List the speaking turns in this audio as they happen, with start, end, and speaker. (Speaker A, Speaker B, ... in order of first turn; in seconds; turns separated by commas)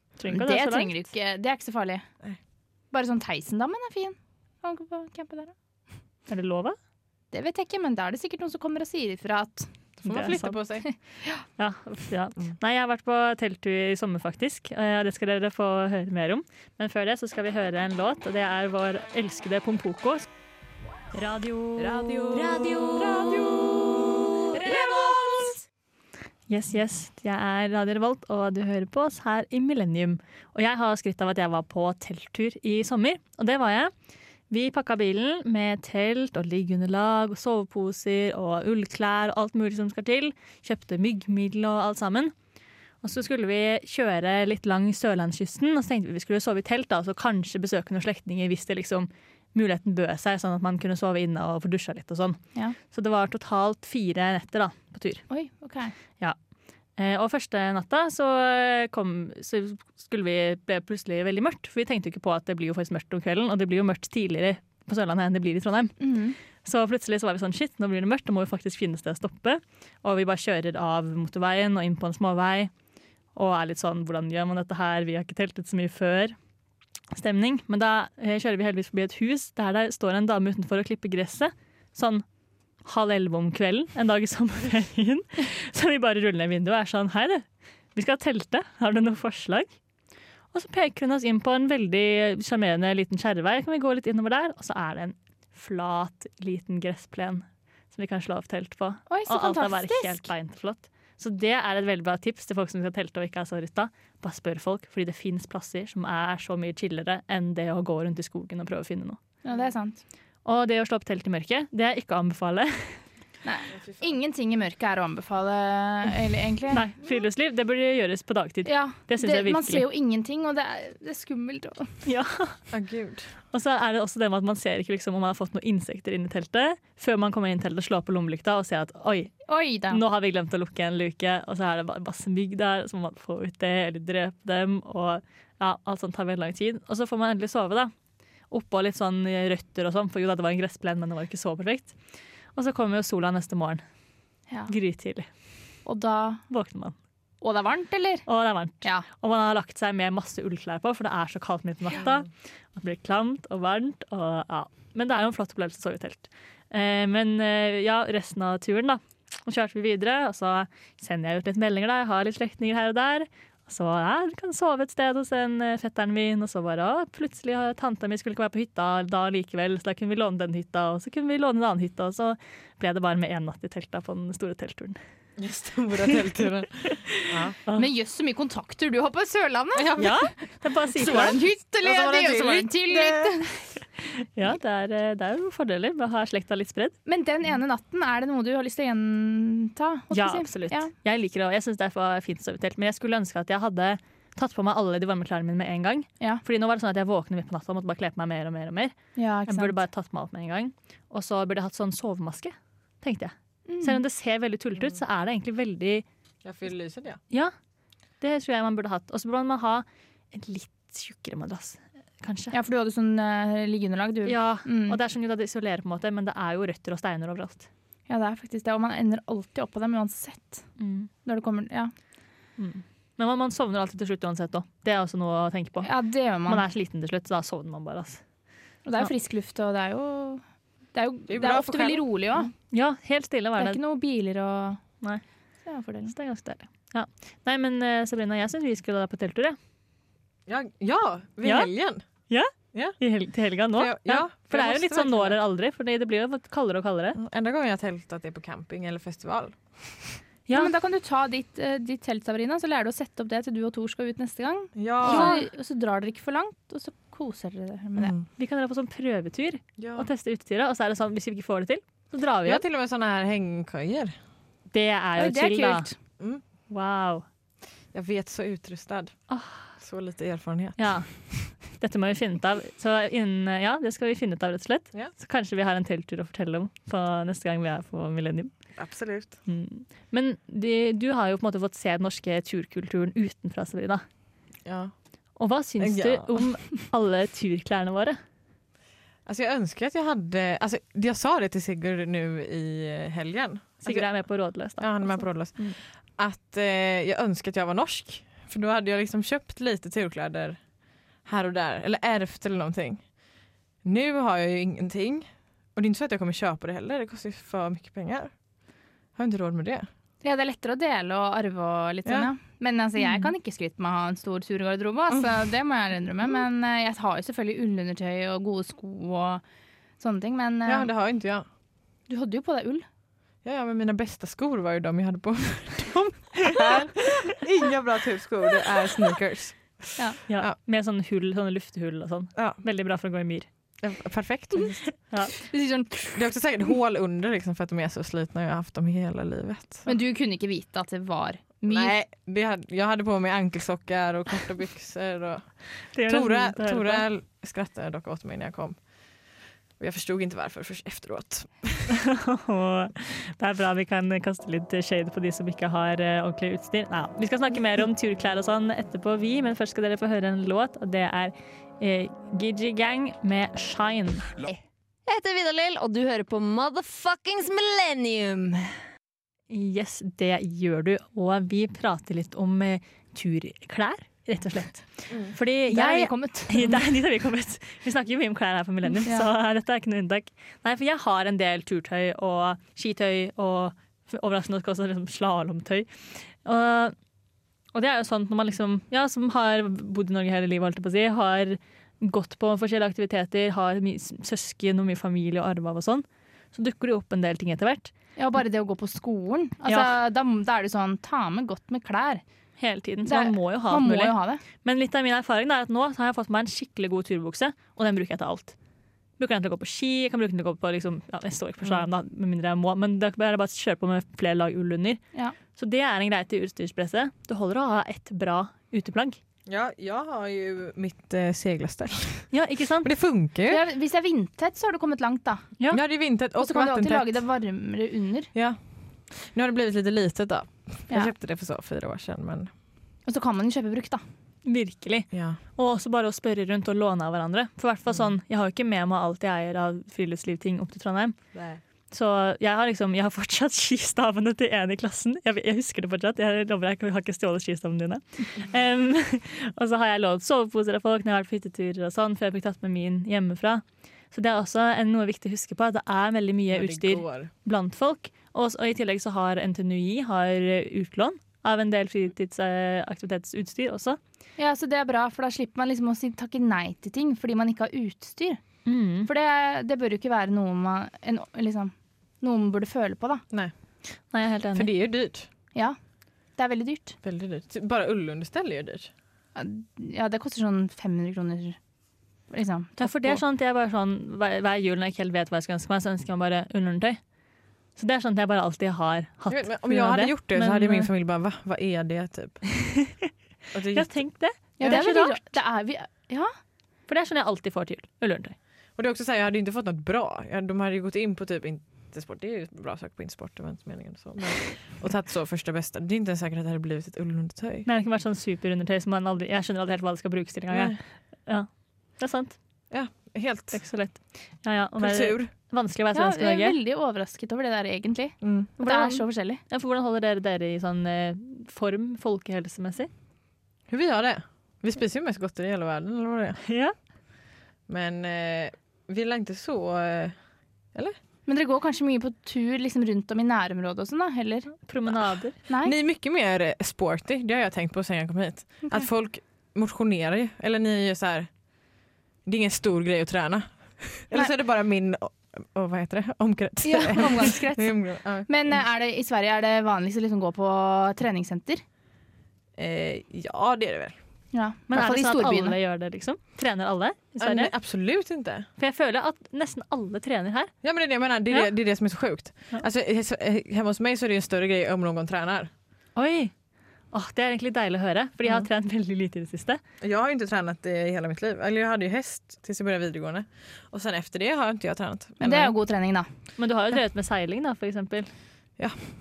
Speaker A: 0.2-0.9, Speaker B: 0.3-2.0, Speaker B: 2.9-5.5, Speaker A: 6.3-6.8, Speaker B: 7.3-9.7, Speaker C: 10.0-10.8, Speaker A: 10.1-10.6, Speaker A: 11.6-20.2, Speaker A: 21.1-24.9, Speaker D: 21.9-25.3, Speaker C: 23.2-23.9, Speaker A: 26.5-33.9, Speaker A: 34.5-42.3, Speaker A: 43.0-55.2, Speaker B: 55.3-55.9, Speaker A: 57.0-66.0, Speaker B: 66.0-66.3, Speaker A: 66.6-72.7, Speaker A: 73.3-76.3, Speaker A: 77.1-82.2, Speaker A: 82.8-89.7, Speaker A: 90.5-109.2, Speaker B: 99.1-100.2, Speaker B: 109.4-110.0, Speaker A: 110.4-113.0, Speaker B: 113.4-116.8, Speaker A: 116.7-119.8, Speaker B: 118.6-121.9, Speaker A: 122.0-122.6, Speaker C: 122.7-123.3, Speaker A: 123.5-137.9, Speaker B: 129.5-130.0, Speaker A: 138.5-141.9, Speaker A: 142.5-143.8, Speaker A: 144.7-145.3, Speaker B: 145.8-146.4, Speaker A: 146.5-146.9, Speaker B: 147.4-148.2, Speaker A: 148.3-175.0, Speaker C: 175.4-177.6, Speaker A: 176.9-177.9, Speaker B: 177.7-180.0, Speaker C: 179.7-180.3, Speaker A: 180.0-181.4, Speaker B: 180.9-183.5, Speaker C: 181.2-183.4, Speaker A: 184.0-186.9, Speaker B: 187.1-190.9, Speaker A: 190.1-198.9, Speaker B: 199.2-199.8, Speaker A: 199.5-206.0, Speaker B: 203.7-204.0, Speaker C: 206.4-207.2, Speaker A: 208.2-212.5, Speaker B: 212.5-215.0, Speaker A: 214.2-217.7, Speaker B: 218.1-220.6, Speaker A: 220.8-221.1, Speaker B: 221.2-221.9, Speaker A: 222.6-228.2, Speaker B: 225.8-226.6, Speaker B: 228.8-230.4, Speaker B: 230.9-232.5, Speaker C: 231.3-232.0, Speaker A: 232.7-233.8, Speaker B: 233.6-234.8, Speaker B: 235.7-236.1, Speaker A: 236.1-239.6, Speaker C: 240.5-242.0, Speaker A: 241.4-241.7, Speaker A: 242.3-247.2, Speaker C: 243.8-245.4, Speaker C: 247.2-250.2, Speaker A: 250.5-250.7, Speaker B: 250.5-258.1, Speaker C: 254.8-255.4, Speaker A: 255.0-255.4, Speaker C: 258.0-258.2, Speaker A: 258.4-262.6, Speaker C: 259.8-260.1, Speaker C: 262.4-264.1, Speaker A: 264.7-265.9, Speaker B: 265.2-265.9, Speaker A: 266.7-267.2, Speaker C: 267.9-269.1, Speaker A: 269.3-269.7, Speaker C: 269.8-271.0, Speaker A: 270.8-278.5, Speaker C: 278.8-279.4, Speaker A: 279.5-284.0, Speaker C: 284.6-284.9, Speaker A: 285.4-288.2, Speaker C: 285.8-286.4, Speaker C: 289.2-294.1, Speaker A: 293.8-295.8, Speaker C: 294.8-300.6, Speaker C: 301.2-303.0, Speaker C: 303.8-308.3, Speaker C: 309.1-309.9, Speaker B: 310.2-319.4, Speaker C: 312.1-312.3, Speaker B: 320.0-320.9, Speaker C: 320.6-321.4, Speaker B: 322.1-322.9, Speaker C: 323.4-330.5, Speaker A: 330.3-333.5, Speaker C: 332.4-332.6, Speaker C: 333.8-334.9, Speaker B: 335.4-336.2, Speaker C: 336.1-339.9, Speaker B: 339.9-341.9, Speaker C: 341.7-345.5, Speaker A: 345.9-347.1, Speaker C: 346.0-348.8, Speaker C: 349.8-351.9, Speaker A: 351.9-364.6, Speaker D: 365.1-368.8, Speaker A: 369.5-386.9, Speaker B: 375.6-376.8, Speaker A: 387.7-397.9, Speaker B: 398.2-402.2, Speaker A: 399.7-399.9, Speaker A: 402.6-408.5, Speaker B: 403.0-404.4, Speaker A: 409.2-415.0, Speaker A: 415.5-419.2, Speaker C: 419.5-423.6, Speaker A: 422.3-422.9, Speaker B: 423.5-425.4, Speaker C: 425.7-427.2, Speaker B: 426.4-428.3, Speaker C: 428.3-432.5, Speaker B: 433.1-434.0, Speaker A: 434.4-441.2, Speaker C: 435.1-435.4, Speaker C: 441.3-441.6, Speaker A: 441.9-464.0, Speaker C: 456.5-457.3, Speaker B: 464.4-468.4, Speaker A: 468.6-469.1, Speaker B: 469.0-473.2, Speaker A: 474.1-474.7, Speaker C: 474.5-475.3, Speaker B: 476.4-477.0, Speaker C: 477.0-478.9, Speaker B: 479.3-481.6, Speaker B: 482.3-483.2, Speaker A: 482.8-487.0, Speaker A: 487.8-490.9, Speaker C: 489.3-492.5, Speaker A: 492.6-493.1, Speaker C: 493.5-493.9, Speaker A: 493.7-495.3, Speaker B: 494.6-496.3, Speaker A: 496.9-498.4, Speaker C: 498.8-507.7, Speaker A: 507.6-512.4, Speaker C: 510.5-510.8, Speaker C: 512.7-513.6, Speaker A: 513.5-516.6, Speaker C: 514.8-515.3, Speaker B: 515.9-519.4, Speaker C: 518.2-518.5, Speaker A: 518.6-522.9, Speaker C: 523.7-526.4, Speaker A: 526.4-526.7, Speaker C: 527.7-530.1, Speaker B: 531.2-534.5, Speaker A: 534.7-535.3, Speaker B: 535.5-535.7, Speaker C: 535.6-541.3, Speaker C: 542.2-548.3, Speaker B: 546.6-551.6, Speaker C: 552.6-554.0, Speaker B: 554.3-555.5, Speaker A: 554.7-557.5, Speaker C: 557.2-558.5, Speaker A: 558.6-560.5, Speaker C: 560.6-565.5, Speaker A: 566.0-566.3, Speaker A: 566.9-569.6, Speaker C: 569.8-575.5, Speaker B: 575.2-576.1, Speaker A: 576.4-578.1